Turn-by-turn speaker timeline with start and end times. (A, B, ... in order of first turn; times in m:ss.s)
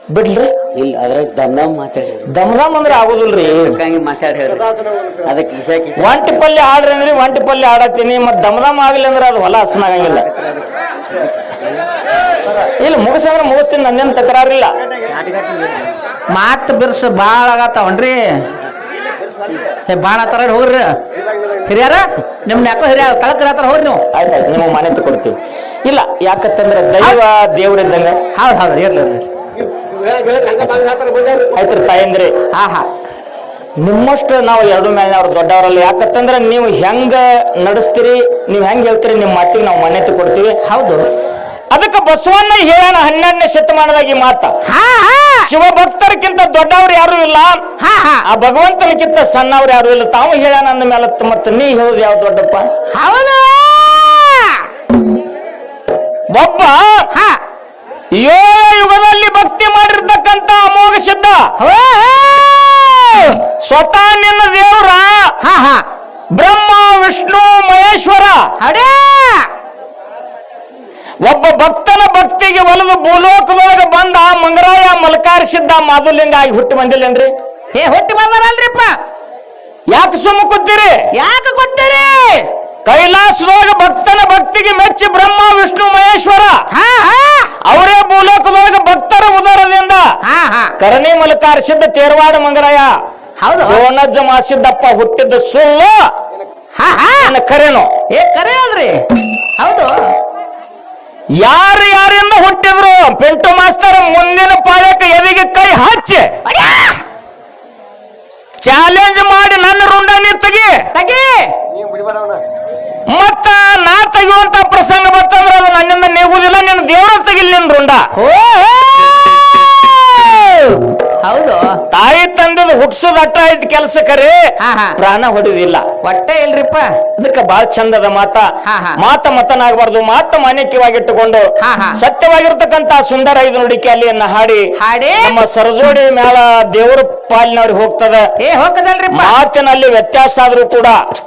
0:00.1-0:00.6 A
0:00.7-0:02.3 B
0:02.3-0:03.8 A
0:03.3-0:04.7 B
0:05.2-0:06.3 B
0:06.0-0:10.3 A
0:12.8-0:14.7 A
0:15.2-0:15.7 B
0:16.3-0:18.4 C
0:19.9-0:21.0 C
0:21.6-0:24.0 C
0:24.1-0:28.2 A
0:28.3-0:29.3 C
0:30.6-0:32.4 A
0:32.5-0:32.9 C
0:33.8-0:40.6 A
0:40.6-0:41.1 C
0:41.7-0:44.5 A
0:44.6-0:45.5 C
0:45.4-0:47.7 A
0:47.8-0:48.2 C
0:48.2-0:52.7 A
0:52.9-0:54.7 C
0:56.3-0:57.1 A
0:57.1-0:57.4 C
0:58.2-1:01.5 A
1:01.6-1:03.4 C
1:03.5-1:05.3 A
1:05.4-1:05.8 C
1:06.3-1:08.5 A
1:08.6-1:09.5 C
1:11.2-1:17.3 A
1:17.7-1:19.0 C
1:19.9-1:21.0 A
1:21.1-1:22.5 C
1:22.8-1:26.6 A
1:26.7-1:27.6 C
1:27.6-1:30.1 A
1:30.2-1:30.7 C
1:30.8-1:32.9 A
1:33.4-1:33.8 C
1:33.6-1:36.0 A
1:36.8-1:37.3 C
1:37.2-1:37.9 A
1:38.1-1:40.1 C
1:41.4-1:46.4 A
1:46.4-1:47.0 C
1:48.6-1:50.9 A
1:50.9-1:51.5 C
1:53.1-1:58.0 A
1:58.1-1:59.3 C
1:59.8-2:01.8 C
2:01.9-2:04.4 A
2:04.6-2:05.0 C
2:05.0-2:05.9 A
2:06.0-2:07.0 C
2:07.2-2:18.3 A
2:08.6-2:09.0 C
2:11.6-2:12.0 C
2:14.8-2:15.4 C
2:18.4-2:19.4 C
2:19.1-2:21.0 A